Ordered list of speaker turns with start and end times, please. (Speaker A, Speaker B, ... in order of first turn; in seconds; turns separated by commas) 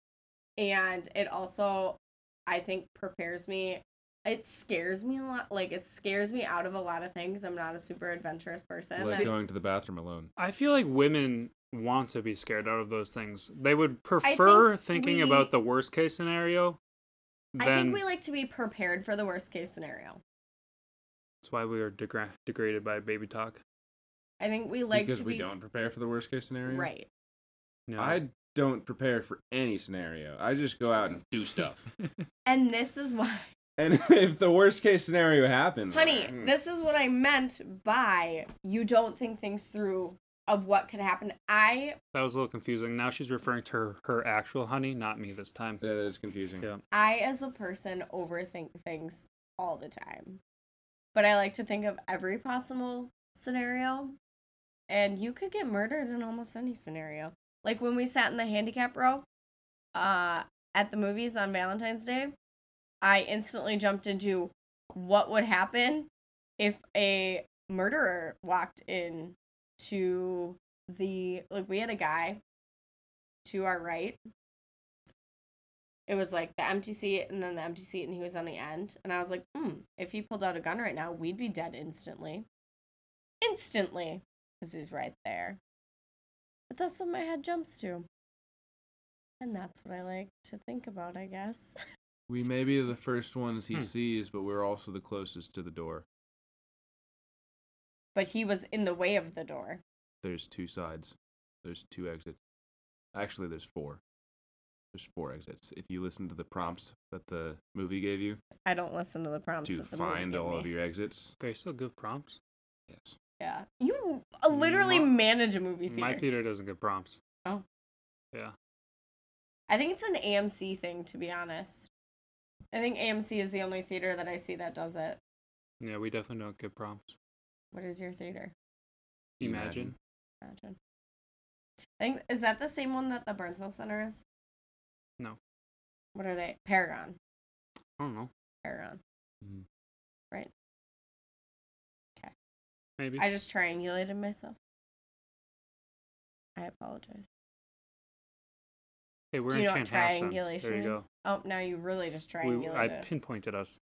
Speaker A: 0.6-9.3, Speaker B: 9.0-10.3, Speaker C: 10.4-16.8, Speaker A: 14.2-15.5, Speaker C: 17.5-18.0, Speaker A: 17.6-20.2, Speaker C: 21.4-23.6, Speaker A: 24.4-25.5, Speaker B: 24.9-26.9, Speaker A: 26.6-27.1, Speaker C: 27.9-28.2, Speaker B: 28.0-31.9, Speaker A: 32.5-33.5, Speaker B: 33.8-36.5, Speaker A: 35.9-42.0, Speaker C: 42.1-45.8, Speaker B: 45.8-46.7, Speaker A: 46.9-50.4, Speaker A: 51.1-54.1, Speaker A: 54.9-59.2, Speaker A: 59.9-62.3, Speaker A: 63.0-72.4, Speaker A: 73.4-74.2, Speaker A: 76.1-82.5, Speaker A: 83.4-85.6, Speaker A: 86.7-88.0, Speaker A: 89.4-91.8, Speaker B: 92.3-96.0, Speaker A: 98.1-99.8, Speaker B: 100.2-102.4, Speaker B: 103.1-104.0, Speaker B: 104.9-108.4, Speaker A: 108.6-110.7, Speaker B: 109.6-111.3, Speaker C: 111.4-112.4, Speaker B: 112.9-113.1, Speaker A: 113.4-116.2, Speaker C: 114.5-115.1, Speaker C: 115.9-117.2, Speaker A: 119.7-121.9, Speaker A: 122.7-125.2, Speaker C: 125.8-127.2, Speaker A: 127.7-128.5, Speaker C: 129.4-129.9, Speaker B: 129.4-129.9, Speaker A: 130.4-130.8, Speaker A: 132.0-134.2, Speaker A: 136.1-137.2, Speaker C: 138.0-138.3, Speaker A: 138.6-139.0, Speaker C: 143.0-143.2, Speaker A: 143.2-144.6, Speaker A: 146.6-147.3, Speaker C: 149.3-151.0, Speaker A: 149.5-153.1, Speaker C: 152.4-153.8